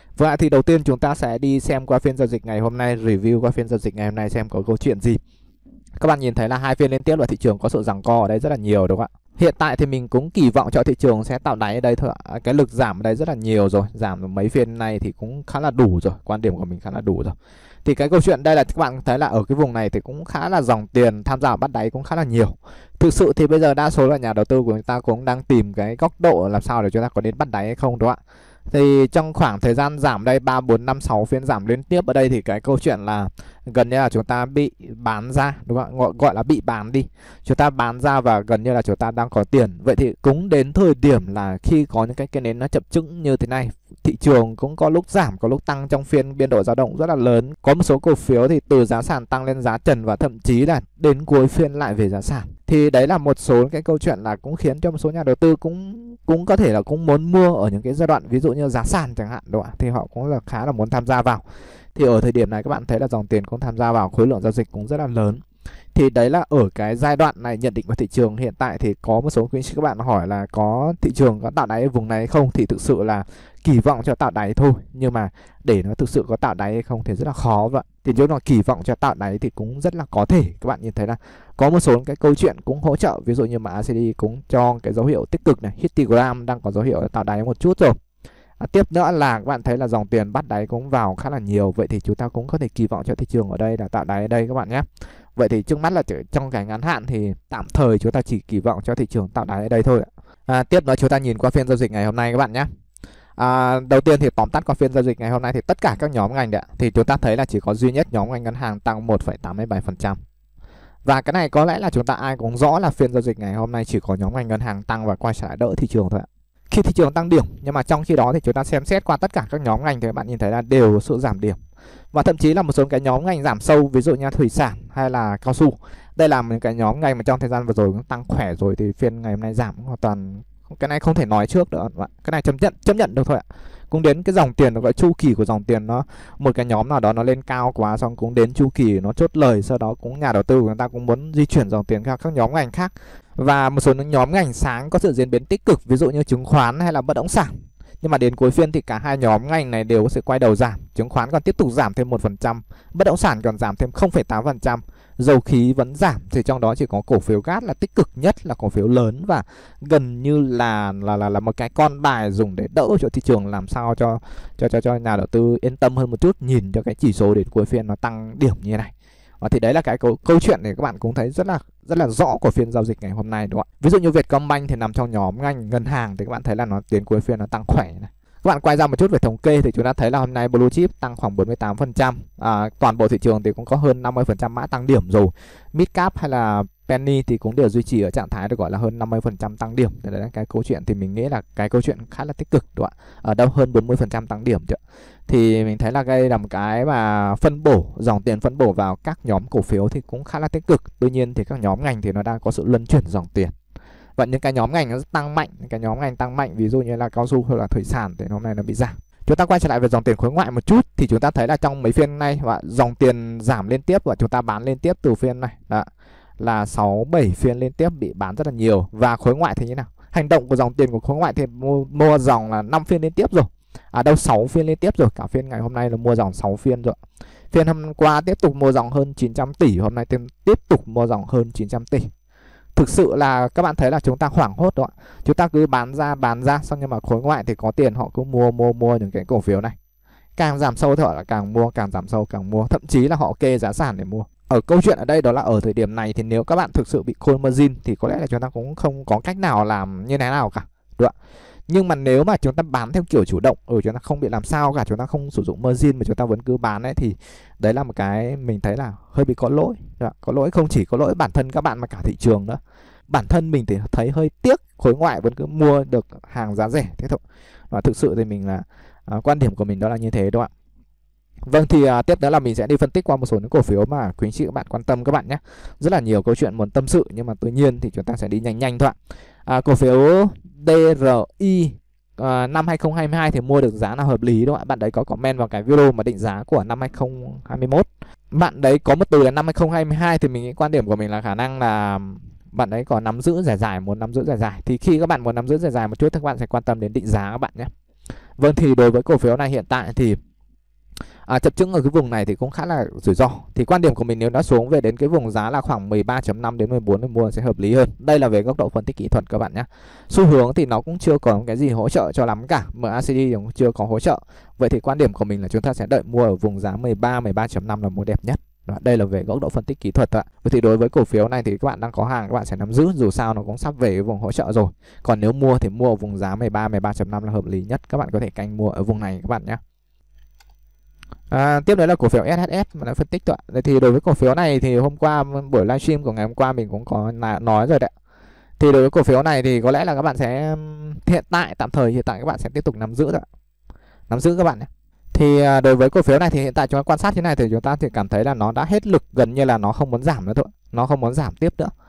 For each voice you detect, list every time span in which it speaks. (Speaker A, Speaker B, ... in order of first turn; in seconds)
Speaker A: 0.1-5.2, 6.0-61.4, 61.9-65.4, 65.9-88.0, 88.6-102.7, 103.4-110.2, 111.0-121.6, 122.1-203.5, 204.2-215.9, 216.4-227.0, 227.5-232.1, 232.7-239.7, 240.4-251.1, 251.7-270.5, 271.4-278.9, 279.4-297.7, 298.4-300.2, 301.3-329.6, 331.3-337.9, 338.6-343.2, 344.1-351.7